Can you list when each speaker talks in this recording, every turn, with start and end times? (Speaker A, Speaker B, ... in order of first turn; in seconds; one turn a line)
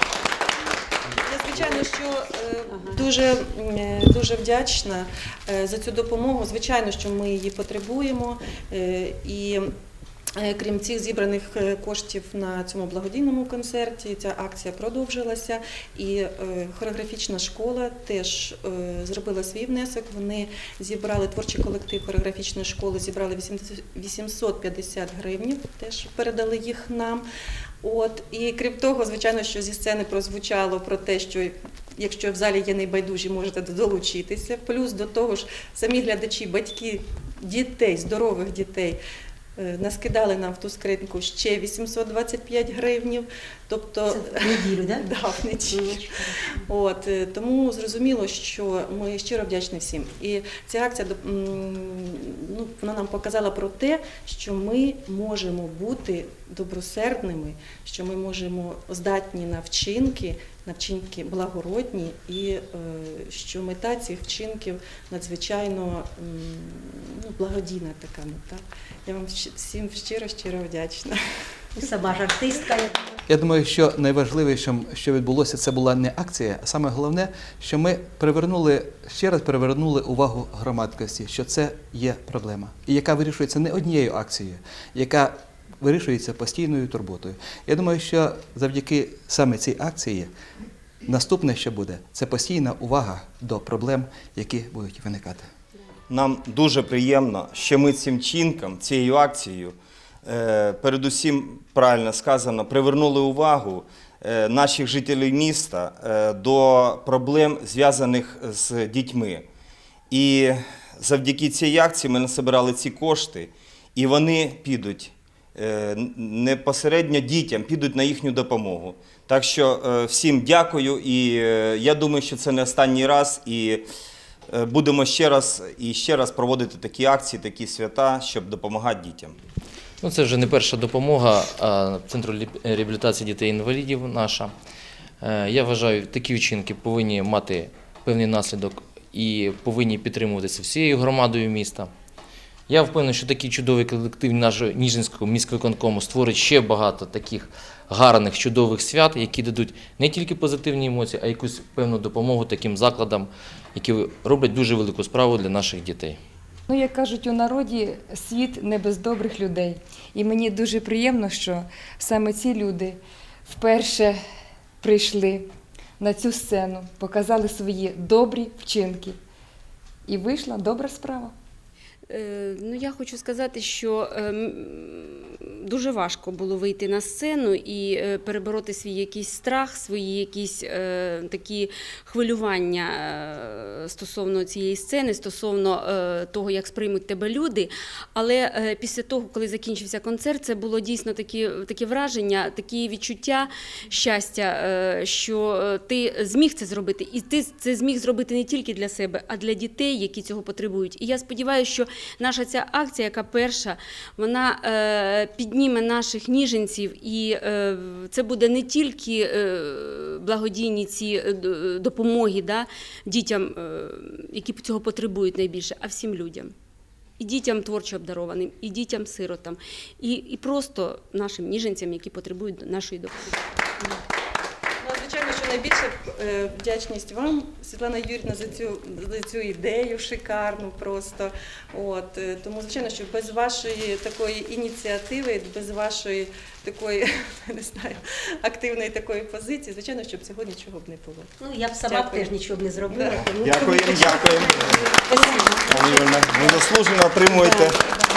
Speaker A: 1.2-9.7
Speaker B: 2.7-3.0
Speaker A: 10.3-27.2
Speaker A: 27.8-39.0
Speaker A: 39.6-46.0
Speaker B: 44.1-45.1
Speaker B: 45.7-46.6
Speaker A: 46.7-71.2
Speaker B: 71.8-73.0
Speaker C: 73.3-90.3
Speaker C: 91.0-95.5
Speaker D: 96.1-109.5
Speaker D: 110.1-123.8
Speaker D: 124.5-129.3
Speaker E: 130.0-134.5
Speaker E: 135.2-141.9
Speaker E: 142.7-156.2
Speaker F: 156.7-164.2
Speaker F: 164.8-165.5
Speaker F: 166.0-169.2
Speaker F: 170.1-171.3
Speaker G: 172.1-216.5
Speaker G: 217.2-223.9
Speaker A: 224.8-241.3
Speaker B: 241.4-245.7
Speaker A: 241.8-242.3
Speaker A: 242.9-243.2
Speaker D: 243.1-244.9
Speaker A: 243.8-244.2
Speaker A: 244.9-246.6
Speaker D: 245.7-247.8
Speaker B: 247.3-247.8